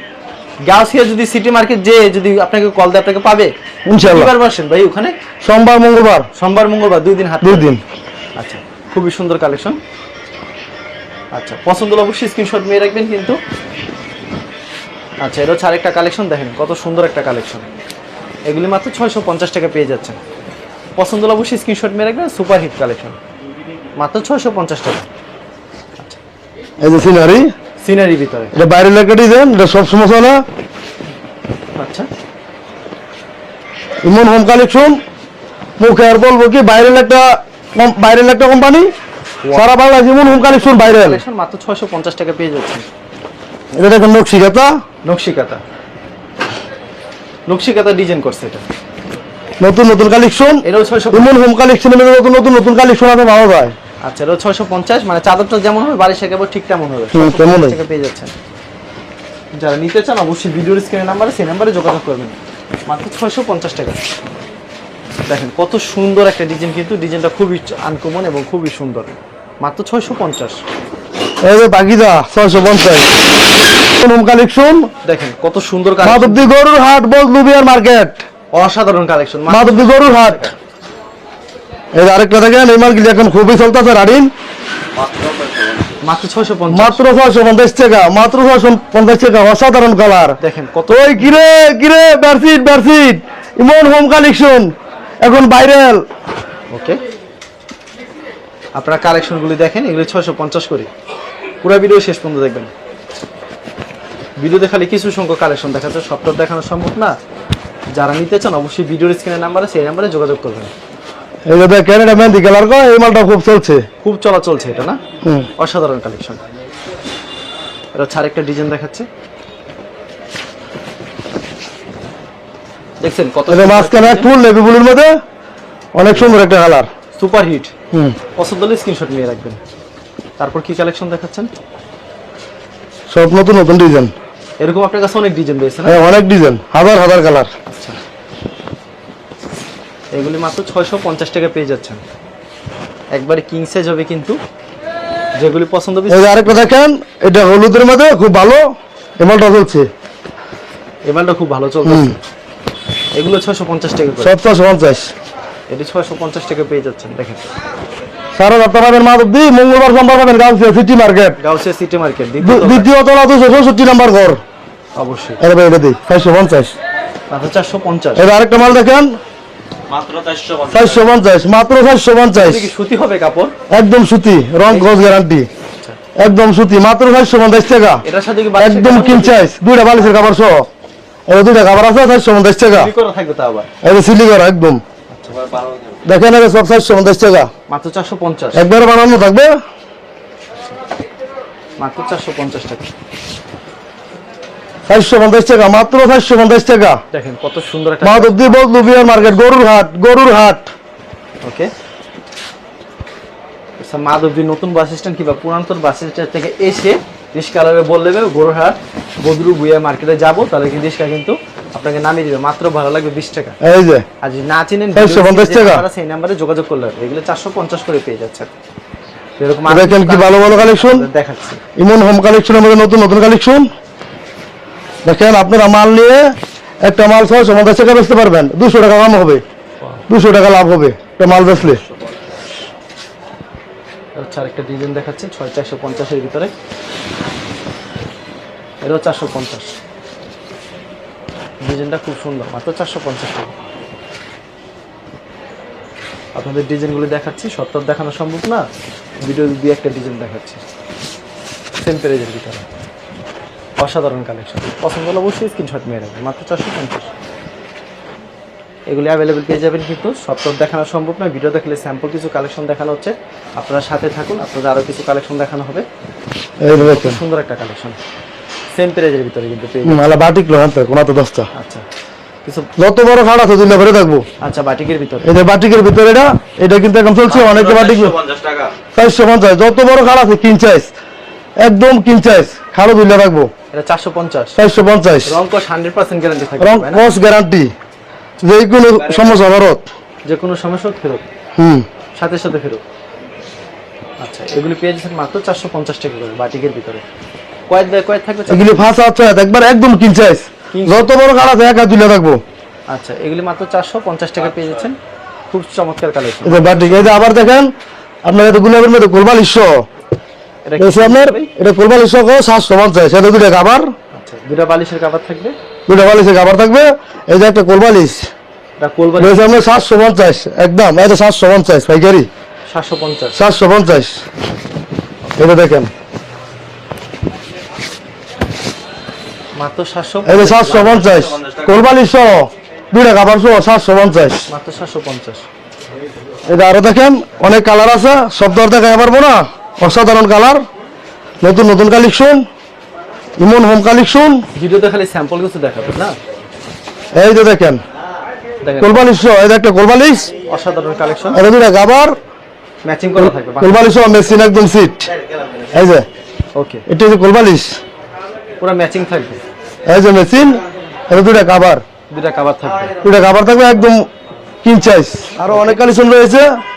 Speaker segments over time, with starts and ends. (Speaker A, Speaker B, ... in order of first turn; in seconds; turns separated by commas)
Speaker A: 0.6-5.2, Speaker B: 3.9-4.3, Speaker B: 5.4-6.3, Speaker A: 6.4-7.7, Speaker B: 7.4-7.8, Speaker A: 8.4-9.8, Speaker A: 11.3-13.4, Speaker A: 15.2-17.7, Speaker A: 18.5-20.2, Speaker A: 21.0-23.2, Speaker A: 24.0-25.1, Speaker B: 26.8-27.5, Speaker A: 27.8-28.5, Speaker B: 28.6-30.4, Speaker A: 31.8-32.1, Speaker B: 34.0-35.0, Speaker B: 35.8-38.9, Speaker B: 39.5-41.2, Speaker A: 40.6-42.9, Speaker B: 43.7-44.7, Speaker A: 45.0-45.6, Speaker A: 47.5-48.6, Speaker B: 49.6-53.8, Speaker A: 50.6-51.3, Speaker A: 54.0-58.3, Speaker B: 57.1-57.8, Speaker A: 59.5-64.0, Speaker A: 65.3-70.6, Speaker B: 71.4-73.1, Speaker B: 74.0-74.9, Speaker A: 75.0-76.5, Speaker B: 76.0-78.2, Speaker A: 78.5-80.5, Speaker B: 79.5-80.4, Speaker B: 81.9-84.3, Speaker C: 85.0-86.0, Speaker A: 86.0-87.0, Speaker B: 86.7-94.7, Speaker A: 90.4-91.3, Speaker B: 95.2-96.0, Speaker A: 96.7-97.0, Speaker A: 98.8-100.9, Speaker A: 101.6-102.7, Speaker A: 104.4-107.2, Speaker A: 107.9-110.7, Speaker B: 111.5-113.9, Speaker A: 114.0-115.0, Speaker A: 115.6-116.4, Speaker A: 117.9-119.1, Speaker A: 123.0-124.3, Speaker B: 123.5-125.1, Speaker B: 126.0-126.9, Speaker A: 126.1-126.4, Speaker A: 127.2-127.7, Speaker A: 128.4-129.6, Speaker A: 130.4-131.5, Speaker B: 133.1-134.1, Speaker A: 134.6-136.0, Speaker B: 135.8-137.5, Speaker A: 137.7-138.0, Speaker A: 140.1-142.0, Speaker A: 143.1-144.4, Speaker A: 145.4-146.7, Speaker B: 146.1-148.6, Speaker B: 149.2-149.9, Speaker A: 151.1-152.2, Speaker B: 151.8-152.2, Speaker A: 153.1-154.3, Speaker B: 154.2-155.1, Speaker A: 155.7-157.4, Speaker B: 158.4-161.4, Speaker A: 161.4-162.9, Speaker B: 162.4-164.4, Speaker A: 165.0-165.4, Speaker B: 165.4-166.7, Speaker A: 167.3-168.3, Speaker B: 168.2-169.2, Speaker C: 169.9-170.8, Speaker B: 170.7-172.7, Speaker A: 172.3-173.6, Speaker B: 173.7-175.5, Speaker A: 174.7-175.0, Speaker B: 176.2-178.0, Speaker A: 178.0-179.4, Speaker B: 178.6-180.7, Speaker B: 181.3-182.9, Speaker A: 182.7-183.7, Speaker B: 183.8-184.8, Speaker A: 185.1-185.4, Speaker C: 185.5-186.0, Speaker B: 186.1-187.5, Speaker A: 187.7-188.7, Speaker B: 188.6-189.5, Speaker A: 191.8-192.9, Speaker B: 194.9-197.0, Speaker A: 197.1-199.4, Speaker B: 198.0-200.7, Speaker A: 201.4-201.7, Speaker A: 203.8-213.6, Speaker B: 213.6-214.1, Speaker A: 214.2-218.5, Speaker B: 214.9-215.8, Speaker A: 219.4-221.6, Speaker B: 219.7-221.1, Speaker B: 221.8-223.7, Speaker B: 225.1-226.3, Speaker B: 226.8-229.4, Speaker B: 230.1-231.8, Speaker A: 234.2-236.5, Speaker A: 238.8-239.7, Speaker A: 241.6-243.5, Speaker A: 246.3-248.7, Speaker A: 249.2-250.6, Speaker A: 251.8-252.6, Speaker A: 253.8-257.1, Speaker A: 258.9-265.9, Speaker B: 266.6-267.2, Speaker A: 266.7-268.0, Speaker A: 268.7-270.0, Speaker B: 269.8-271.5, Speaker A: 271.5-271.9, Speaker A: 272.4-272.7, Speaker B: 272.8-274.2, Speaker A: 274.4-275.3, Speaker B: 275.2-278.2, Speaker C: 277.4-278.8, Speaker B: 278.9-280.9, Speaker B: 281.6-283.5, Speaker A: 283.7-284.6, Speaker B: 284.6-285.3, Speaker A: 285.3-287.1, Speaker B: 286.6-287.7, Speaker B: 288.4-289.9, Speaker A: 290.2-291.3, Speaker B: 291.6-291.9, Speaker A: 292.1-292.8, Speaker A: 294.2-297.0, Speaker A: 297.7-298.9, Speaker B: 298.5-302.4, Speaker A: 300.7-301.1, Speaker A: 302.9-305.0, Speaker A: 305.5-306.9, Speaker B: 306.4-307.7, Speaker B: 308.2-309.8, Speaker A: 310.7-311.5, Speaker B: 310.8-313.9, Speaker A: 314.1-315.6, Speaker B: 315.9-318.3, Speaker A: 318.8-319.5, Speaker B: 319.2-322.3, Speaker A: 322.7-323.4, Speaker B: 323.4-324.2, Speaker B: 325.4-325.9, Speaker A: 329.6-331.1, Speaker B: 330.3-334.5, Speaker A: 334.5-335.5, Speaker B: 336.5-340.6, Speaker B: 341.4-342.5, Speaker B: 343.4-344.4, Speaker A: 344.5-346.2, Speaker B: 347.1-347.8, Speaker A: 348.6-349.1, Speaker B: 348.8-350.3, Speaker A: 350.5-351.4, Speaker B: 351.3-352.2, Speaker A: 352.8-354.1, Speaker B: 353.2-355.1, Speaker B: 355.7-356.1, Speaker A: 356.6-356.9, Speaker B: 356.9-357.8, Speaker A: 358.6-359.4, Speaker B: 359.9-361.8, Speaker A: 362.1-362.9, Speaker B: 363.0-364.1, Speaker B: 364.6-366.5, Speaker A: 365.4-365.8